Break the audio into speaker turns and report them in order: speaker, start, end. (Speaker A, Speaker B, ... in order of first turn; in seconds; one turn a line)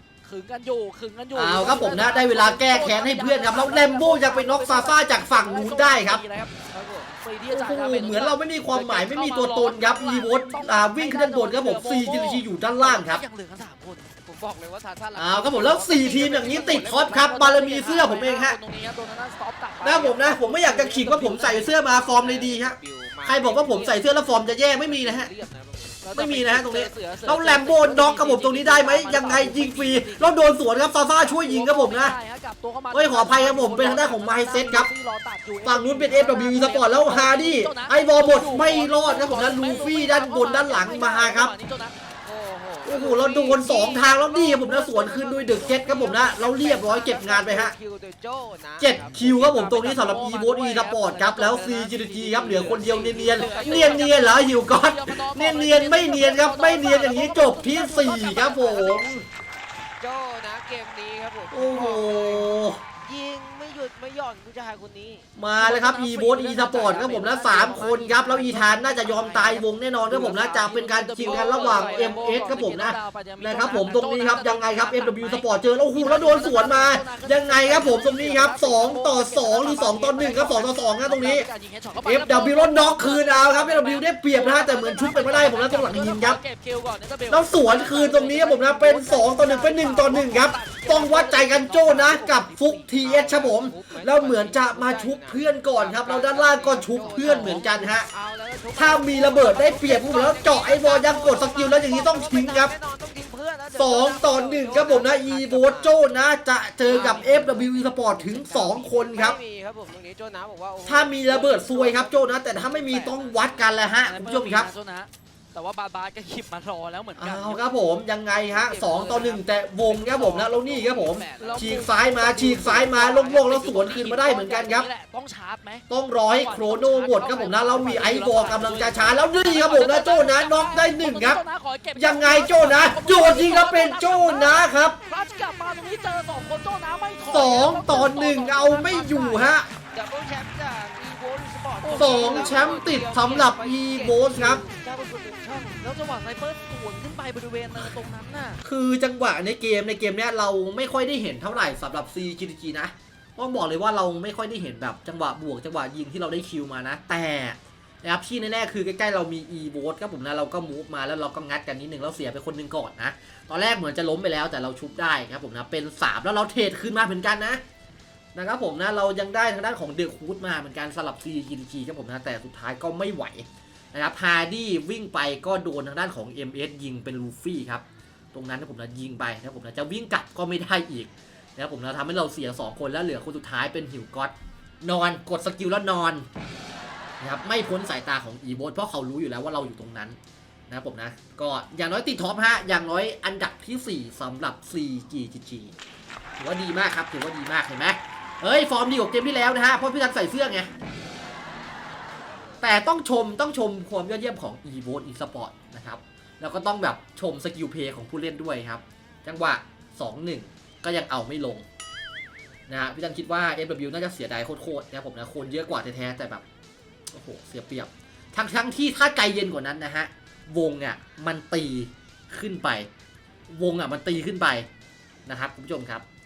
Speaker A: 0.2-6.5
Speaker B: 1.4-6.2
Speaker C: 6.7-7.2
Speaker A: 7.2-14.1
Speaker B: 7.5-13.2
Speaker C: 14.2-17.3
Speaker B: 15.2-18.6
Speaker A: 16.3-21.7
Speaker B: 19.8-25.3
Speaker C: 21.7-26.0
Speaker A: 26.0-30.5
Speaker B: 26.1-32.2
Speaker A: 31.2-42.0
Speaker B: 32.9-34.9
Speaker B: 35.6-41.5
Speaker C: 42.2-44.0
Speaker B: 42.9-47.7
Speaker A: 43.9-47.3
Speaker C: 47.0-49.3
Speaker B: 48.8-59.3
Speaker A: 49.3-59.1
Speaker C: 52.6-54.1
Speaker C: 60.0-65.3
Speaker B: 61.5-62.8
Speaker B: 65.4-81.5
Speaker A: 65.6-93.0
Speaker C: 71.2-72.4
Speaker B: 82.0-86.4
Speaker B: 87.3-98.1
Speaker C: 93.0-106.0
Speaker A: 97.0-97.7
Speaker B: 98.8-102.7
Speaker B: 103.8-109.4
Speaker A: 106.8-108.9
Speaker C: 109.1-113.7
Speaker B: 110.9-114.7
Speaker A: 112.7-113.2
Speaker A: 114.0-117.6
Speaker B: 117.2-124.9
Speaker C: 118.5-121.8
Speaker A: 121.4-139.5
Speaker B: 125.9-131.4
Speaker B: 132.0-135.0
Speaker B: 137.3-139.7
Speaker C: 139.9-145.8
Speaker A: 141.8-142.9
Speaker B: 142.0-144.6
Speaker A: 145.7-148.6
Speaker B: 148.6-167.6
Speaker B: 168.3-186.3
Speaker B: 187.2-190.2
Speaker B: 190.7-195.7
Speaker B: 196.4-200.7
Speaker B: 202.6-211.7
Speaker B: 212.7-216.4
Speaker B: 217.1-222.9
Speaker B: 223.5-224.7
Speaker B: 225.3-226.1